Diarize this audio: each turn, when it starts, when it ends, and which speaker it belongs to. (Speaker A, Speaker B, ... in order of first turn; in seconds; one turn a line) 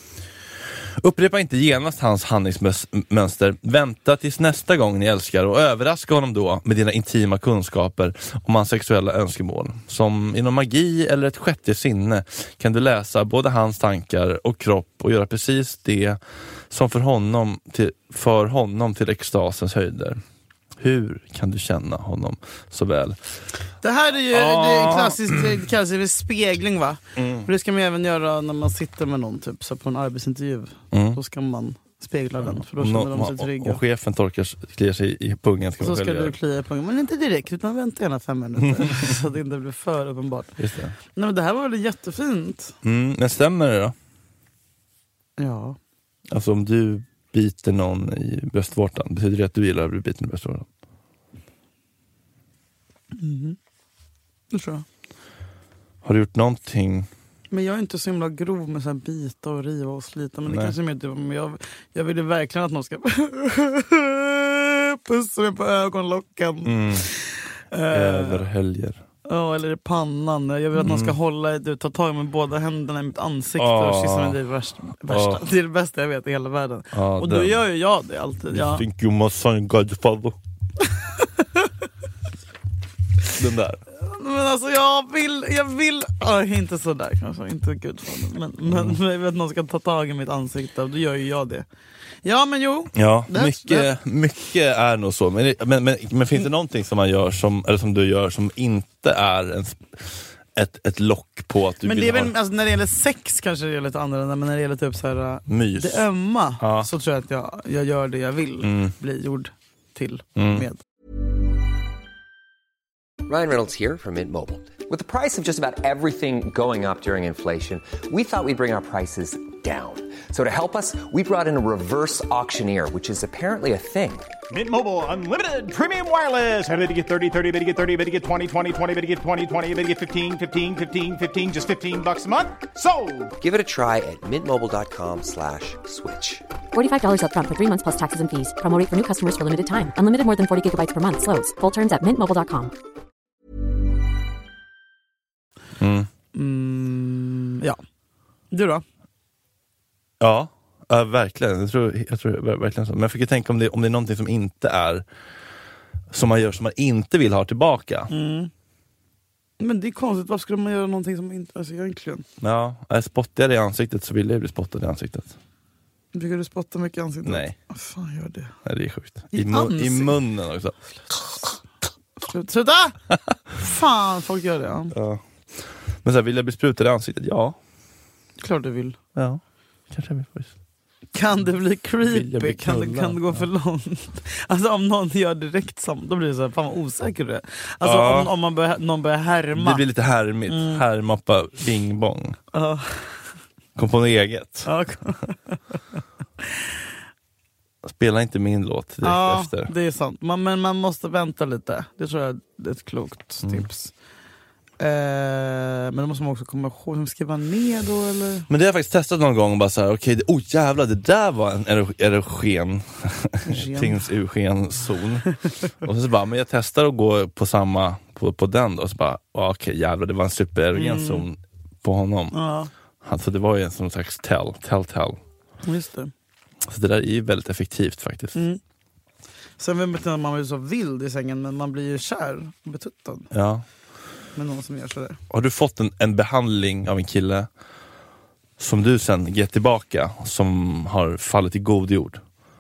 Speaker A: 1.0-16.2
Speaker A: 16.7-20.2
Speaker A: 20.8-23.2
Speaker B: 23.8-33.8
Speaker A: 24.3-25.6
Speaker A: 27.1-27.5
Speaker A: 30.9-31.2
Speaker A: 32.4-36.4
Speaker B: 35.8-40.5
Speaker A: 38.6-39.1
Speaker A: 40.6-41.0
Speaker B: 41.1-42.7
Speaker A: 42.8-43.9
Speaker B: 45.4-45.8
Speaker A: 46.3-50.7
Speaker B: 53.1-53.6
Speaker B: 54.5-54.8
Speaker A: 56.0-57.1
Speaker B: 57.5-68.5
Speaker A: 60.5-60.7
Speaker A: 66.6-67.1
Speaker A: 67.9-69.0
Speaker B: 69.3-78.8
Speaker A: 70.7-71.2
Speaker A: 73.6-74.4
Speaker A: 75.1-75.5
Speaker A: 76.9-77.7
Speaker A: 78.5-80.4
Speaker B: 81.1-81.7
Speaker A: 83.3-83.8
Speaker B: 84.0-91.7
Speaker A: 88.7-89.0
Speaker B: 92.2-93.9
Speaker A: 92.9-102.3
Speaker B: 101.8-110.8
Speaker A: 105.5-106.0
Speaker A: 106.6-106.9
Speaker A: 108.6-108.9
Speaker A: 110.3-110.7
Speaker C: 113.3-124.3
Speaker D: 124.5-133.3
Speaker C: 133.4-136.4
Speaker E: 136.7-142.7
Speaker A: 145.8-146.1
Speaker B: 146.3-147.8
Speaker B: 148.5-148.8
Speaker A: 150.2-155.1
Speaker A: 156.1-158.1
Speaker B: 158.1-158.5
Speaker B: 159.6-162.2
Speaker A: 162.4-165.3
Speaker B: 166.1-168.5
Speaker A: 167.2-167.5
Speaker A: 168.6-170.8
Speaker B: 169.3-170.2
Speaker B: 172.2-172.9
Speaker B: 173.5-174.9
Speaker A: 174.9-177.6
Speaker B: 178.4-179.0
Speaker A: 179.1-180.5
Speaker B: 181.1-189.8
Speaker A: 182.0-183.4
Speaker A: 187.8-188.3
Speaker A: 189.5-192.4
Speaker B: 190.5-190.8
Speaker B: 192.5-193.1
Speaker A: 193.8-194.7
Speaker B: 194.6-195.6
Speaker A: 197.8-199.7
Speaker B: 199.0-203.9
Speaker A: 203.4-203.7
Speaker B: 204.8-208.5
Speaker A: 208.5-215.3
Speaker B: 213.4-214.1
Speaker A: 215.8-222.3
Speaker B: 220.7-221.2
Speaker B: 222.3-222.7
Speaker A: 223.0-225.2
Speaker B: 225.6-226.1
Speaker A: 226.6-228.4
Speaker B: 229.6-233.3
Speaker A: 233.3-233.6
Speaker B: 234.3-235.2
Speaker A: 235.3-237.5
Speaker A: 238.6-242.2